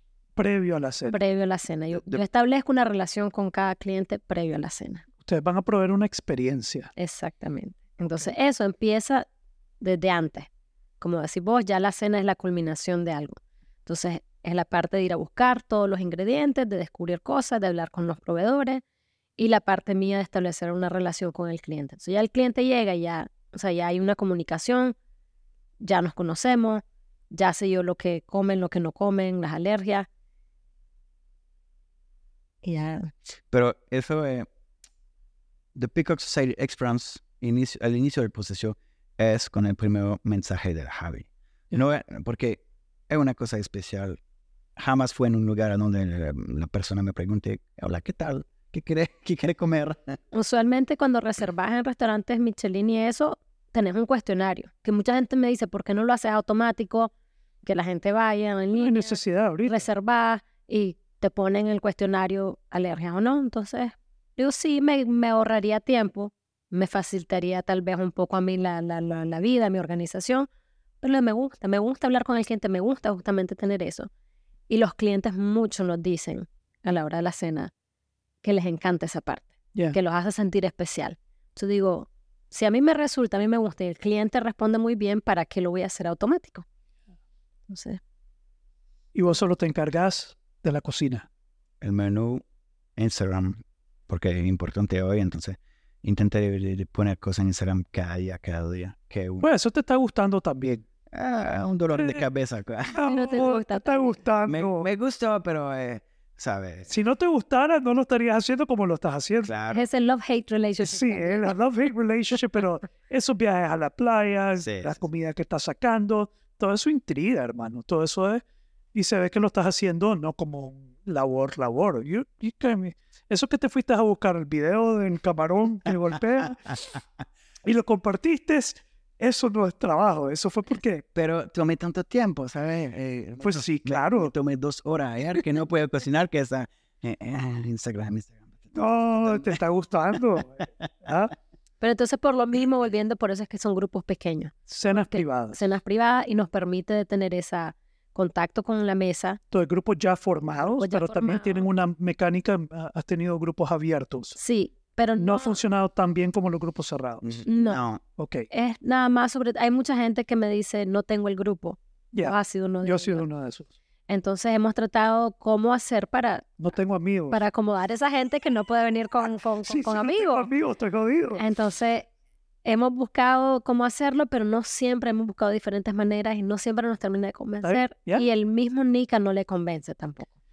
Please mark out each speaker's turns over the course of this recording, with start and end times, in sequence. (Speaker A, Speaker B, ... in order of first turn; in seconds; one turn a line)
Speaker A: 0.3-1.2
Speaker B: 1.1-5.0
Speaker A: 5.2-6.9
Speaker B: 7.0-9.2
Speaker B: 9.8-10.5
Speaker B: 11.0-18.8
Speaker B: 19.4-24.9
Speaker B: 25.8-30.1
Speaker B: 32.6-33.1
Speaker C: 33.5-34.5
Speaker C: 35.7-44.2
Speaker C: 44.8-50.1
Speaker B: 50.3-57.1
Speaker B: 57.6-70.5
Speaker A: 58.7-59.9
Speaker B: 71.0-74.1
Speaker B: 74.7-77.7
Speaker B: 78.4-86.6
Speaker B: 87.7-88.0
Speaker A: 89.1-91.3
Speaker C: 91.8-92.4
Speaker C: 93.0-99.5
Speaker A: 99.4-100.8
Speaker C: 101.1-103.0
Speaker A: 102.9-104.9
Speaker B: 103.0-104.2
Speaker C: 104.5-106.9
Speaker A: 106.9-109.5
Speaker C: 109.4-109.8
Speaker B: 109.7-111.5
Speaker A: 110.8-118.4
Speaker C: 114.6-115.0
Speaker A: 118.9-126.8
Speaker A: 127.6-131.0
Speaker C: 131.1-139.6
Speaker A: 133.4-134.3
Speaker A: 138.7-141.3
Speaker B: 141.8-149.4
Speaker A: 144.7-145.6
Speaker A: 149.5-154.4
Speaker B: 150.6-151.7
Speaker B: 154.4-155.6
Speaker A: 155.2-157.4
Speaker C: 157.2-158.0
Speaker B: 157.5-157.8
Speaker A: 158.2-158.5
Speaker B: 158.5-163.2
Speaker A: 162.1-163.7
Speaker B: 164.1-166.6
Speaker A: 166.6-167.4
Speaker B: 167.3-170.5
Speaker A: 169.6-171.4
Speaker B: 171.4-172.1
Speaker B: 172.6-180.3
Speaker A: 177.6-178.2